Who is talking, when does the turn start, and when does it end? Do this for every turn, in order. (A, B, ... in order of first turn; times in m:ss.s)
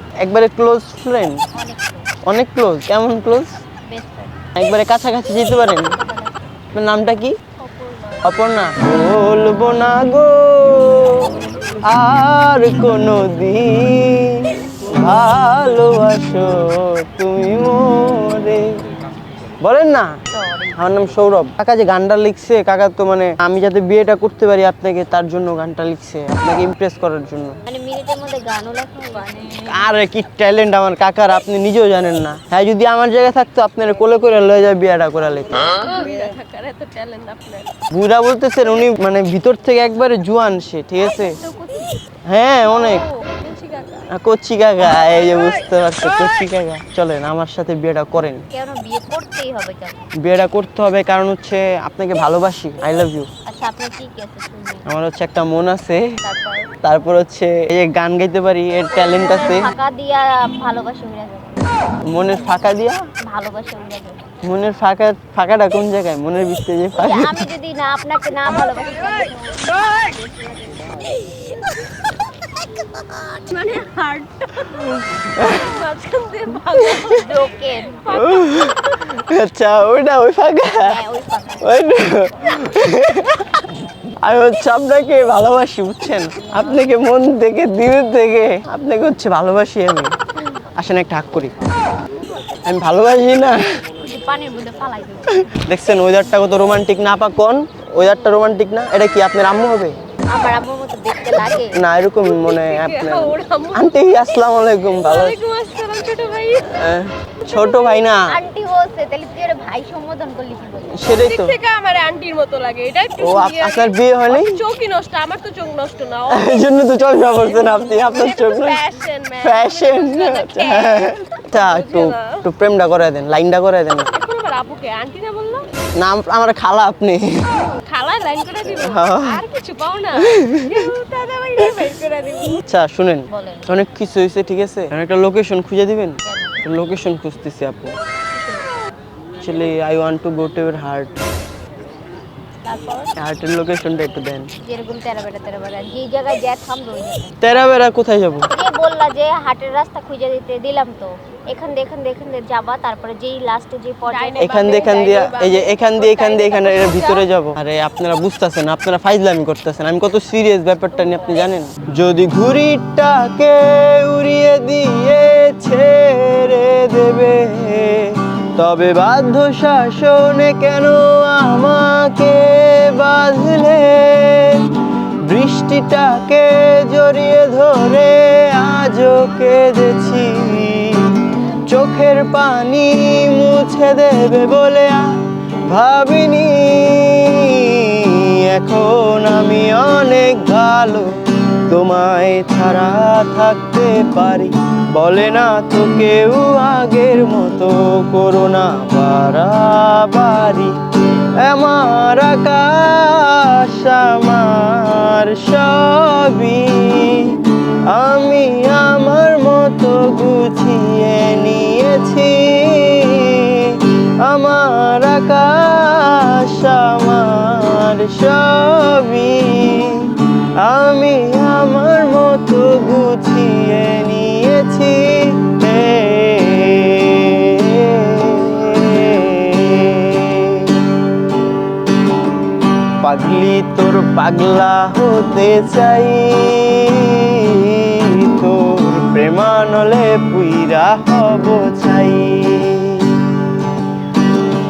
0:00.2-0:01.4 A
0:01.5-0:02.2 B
0:02.2-0:03.6 A
0:03.8-0:04.5 B
0:04.6-0:05.9 A
0:05.8-0:06.5 B
0:06.7-0:07.4 A
0:08.2-0:11.3 A
0:11.9-0:18.8 A
0:19.6-0:20.1 A
0:20.3-0:20.8 B
0:20.8-0:27.6 A
0:27.6-0:29.6 B
0:29.1-0:29.9 C
0:29.7-0:35.8 A
0:35.5-0:37.7 C
0:37.9-0:41.4 A
0:41.0-0:41.9 C
0:42.3-0:43.0 A
0:42.7-0:44.1 C
0:44.1-0:48.4 A
0:44.8-0:46.4 C
0:48.5-0:50.0 B
0:50.2-0:53.3 A
0:53.4-0:54.8 B
0:54.8-0:56.0 A
0:56.2-0:56.7 B
0:56.8-0:59.7 A
0:58.9-1:02.6 B
1:02.0-1:03.0 A
1:03.2-1:04.3 B
1:04.4-1:07.5 A
1:07.0-1:11.0 B
1:08.5-1:08.9 C
1:13.0-1:14.2 B
1:14.7-1:15.7 A
1:15.4-1:17.4 C
1:17.1-1:18.0 B
1:17.9-1:18.7 C
1:18.1-1:21.0 A
1:20.8-1:21.7 B
1:21.6-1:23.6 A
1:24.2-1:30.1 A
1:30.7-1:31.5 A
1:32.6-1:33.6 A
1:34.0-1:35.4 B
1:35.4-1:40.0 A
1:40.3-1:41.8 B
1:41.7-1:45.4 A
1:42.2-1:44.0 C
1:45.0-1:46.8 C
1:46.7-1:48.2 A
1:47.4-1:48.0 C
1:48.3-1:51.2 B
1:50.9-1:51.6 A
1:51.1-1:56.7 C
1:53.2-1:54.5 A
1:56.3-1:58.8 A
1:57.4-2:02.4 C
1:59.4-2:04.1 A
2:04.1-2:05.7 C
2:05.9-2:07.4 A
2:07.5-2:12.6 C
2:08.6-2:09.4 A
2:10.3-2:10.8 A
2:12.6-2:17.9 A
2:13.3-2:13.7 B
2:16.2-2:16.6 B
2:18.3-2:18.8 B
2:19.4-2:21.2 A
2:22.6-2:23.1 B
2:23.2-2:24.5 A
2:24.6-2:27.5 B
2:27.4-2:28.5 A
2:28.5-2:34.9 B
2:34.1-2:37.2 C
2:34.4-2:54.7 A
2:55.2-3:05.1 A
3:05.7-3:11.1 A
3:11.7-3:20.8 A
3:21.4-3:50.8 A
3:53.0-4:03.2 A